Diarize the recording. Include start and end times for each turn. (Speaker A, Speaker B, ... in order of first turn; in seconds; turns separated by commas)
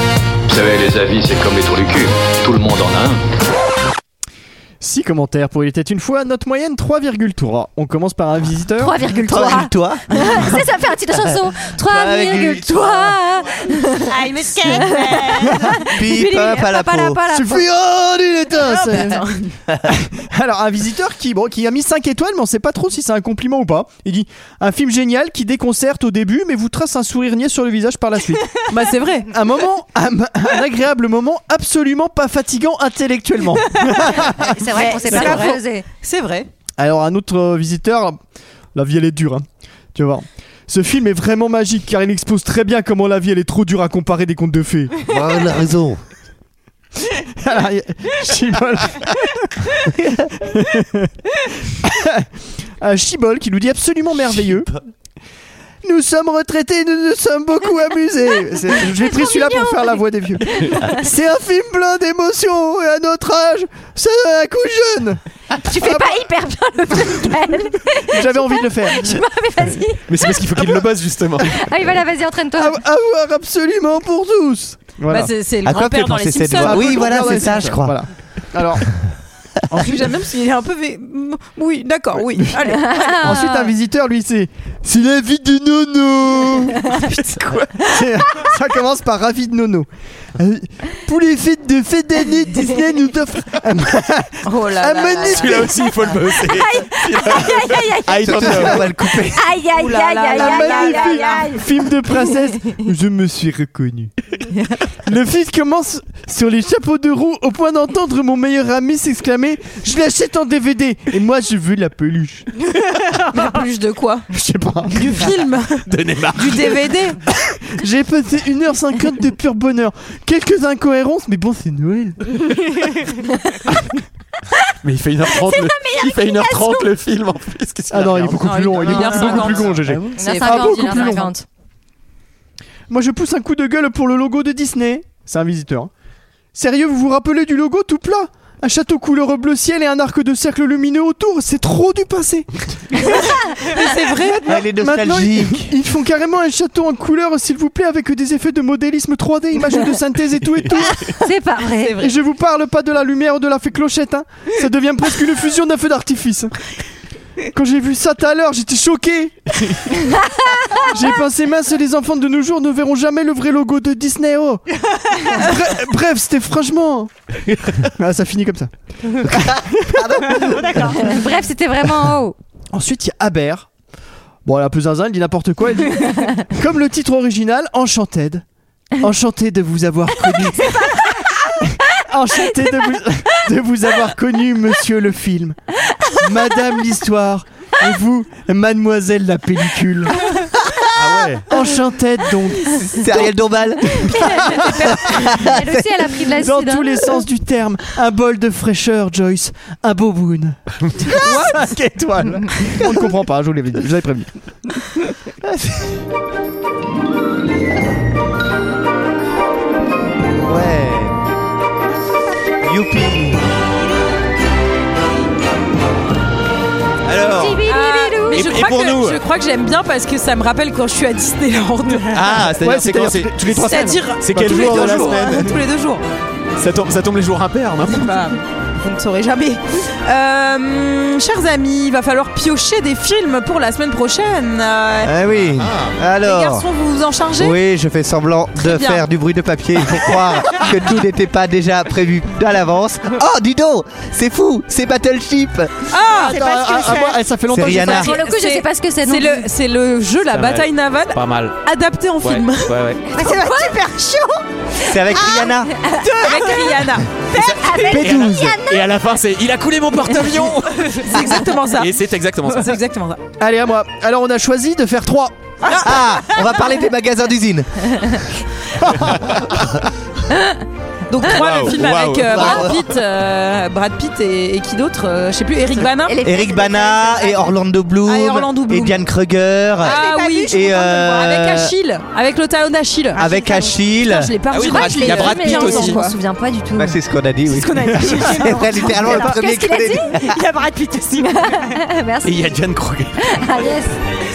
Speaker A: 0.5-3.2, Speaker B: 4.8-9.1, Speaker C: 8.8-14.1, Speaker D: 9.2-10.5, Speaker D: 11.7-13.2, Speaker E: 14.1-15.7, Speaker C: 14.7-17.6, Speaker D: 15.8-17.2, Speaker B: 17.3-19.2, Speaker F: 18.6-19.5, Speaker B: 19.9-28.6, Speaker F: 28.7-29.3, Speaker B: 29.3-35.4, Speaker C: 34.4-35.9, Speaker F: 34.7-36.5, Speaker B: 36.8-38.2, Speaker B: 38.7-45.0, Speaker D: 45.1-46.0, Speaker B: 47.1-51.1, Speaker B: 51.6-52.3, Speaker B: 52.8-54.7, Speaker D: 54.4-54.7, Speaker B: 55.8-66.2, Speaker C: 58.7-61.1, Speaker C: 65.6-70.0, Speaker B: 67.0-67.3, Speaker B: 68.1-69.2, Speaker G: 70.1-71.5, Speaker C: 71.5-72.8, Speaker B: 72.5-75.3, Speaker F: 75.0-77.2, Speaker D: 75.6-78.0, Speaker B: 76.6-78.9, Speaker F: 79.7-83.5, Speaker C: 82.9-83.7, Speaker B: 83.2-86.8, Speaker G: 87.1-87.7, Speaker B: 87.9-95.9, Speaker F: 94.4-95.5, Speaker G: 95.3-98.9, Speaker C: 96.3-102.8, Speaker D: 98.2-99.5, Speaker F: 99.7-101.5, Speaker B: 100.3-104.1, Speaker F: 104.5-104.8, Speaker B: 105.0-112.5, Speaker F: 113.2-114.3, Speaker B: 114.3-115.3, Speaker F: 114.9-117.2, Speaker G: 115.9-116.9, Speaker B: 117.8-122.2, Speaker G: 124.8-130.0, Speaker C: 125.3-126.9, Speaker B: 127.9-131.3, Speaker F: 128.4-131.3, Speaker C: 130.2-131.4, Speaker B: 132.9-135.9, Speaker B: 136.5-143.4, Speaker F: 143.6-144.5, Speaker B: 143.9-151.1, Speaker D: 144.4-145.7, Speaker C: 150.8-152.0, Speaker F: 151.8-152.1, Speaker B: 152.0-156.5, Speaker B: 157.5-160.0, Speaker B: 160.8-167.1, Speaker B: 167.8-168.7, Speaker D: 169.2-170.6, Speaker B: 169.3-170.6, Speaker E: 170.3-171.2, Speaker C: 171.0-172.3, Speaker B: 172.7-173.7, Speaker B: 174.4-178.4, Speaker B: 179.0-180.9, Speaker B: 181.7-185.6, Speaker B: 186.2-190.2, Speaker G: 190.9-191.4, Speaker B: 191.2-193.2, Speaker D: 192.9-195.7, Speaker C: 194.0-197.2, Speaker B: 194.2-195.3, Speaker B: 196.2-204.3, Speaker F: 201.2-201.5, Speaker D: 205.4-205.8, Speaker D: 210.4-211.2, Speaker D: 212.6-213.4, Speaker G: 217.0-217.6, Speaker C: 217.2-218.5, Speaker F: 217.7-222.2, Speaker G: 218.3-219.2, Speaker G: 222.1-225.5, Speaker B: 222.6-225.5, Speaker F: 223.5-226.0, Speaker G: 226.6-228.2, Speaker F: 227.9-235.1, Speaker D: 235.0-236.7, Speaker G: 235.6-235.9, Speaker F: 236.2-237.6, Speaker D: 237.4-245.9, Speaker F: 238.6-239.0, Speaker F: 245.9-246.3, Speaker E: 246.0-247.2, Speaker B: 246.2-248.1, Speaker D: 247.5-248.2, Speaker F: 247.8-252.7, Speaker C: 247.9-249.5, Speaker G: 250.3-251.6, Speaker G: 252.2-253.0, Speaker C: 253.1-253.8, Speaker E: 253.1-254.4, Speaker D: 254.8-255.7, Speaker E: 255.1-258.0, Speaker C: 255.7-256.6, Speaker F: 256.2-257.1, Speaker G: 257.3-262.8, Speaker C: 257.5-258.9, Speaker B: 257.9-258.6, Speaker F: 260.9-261.9, Speaker F: 262.5-263.2, Speaker B: 263.4-265.5, Speaker F: 265.6-266.0, Speaker D: 265.7-268.2, Speaker G: 268.9-269.9, Speaker F: 270.3-276.2, Speaker G: 271.2-272.9, Speaker D: 272.3-272.8, Speaker C: 276.0-277.5, Speaker D: 276.2-281.7, Speaker F: 278.0-279.0, Speaker E: 279.8-281.3, Speaker F: 279.8-283.3, Speaker E: 283.1-283.8, Speaker D: 283.1-284.3, Speaker F: 283.9-286.1, Speaker G: 284.5-286.0, Speaker C: 284.7-287.0, Speaker D: 286.7-290.4, Speaker E: 287.4-289.4, Speaker C: 289.1-290.2, Speaker E: 290.1-291.8, Speaker C: 291.2-292.6, Speaker G: 292.2-293.4, Speaker C: 293.2-294.0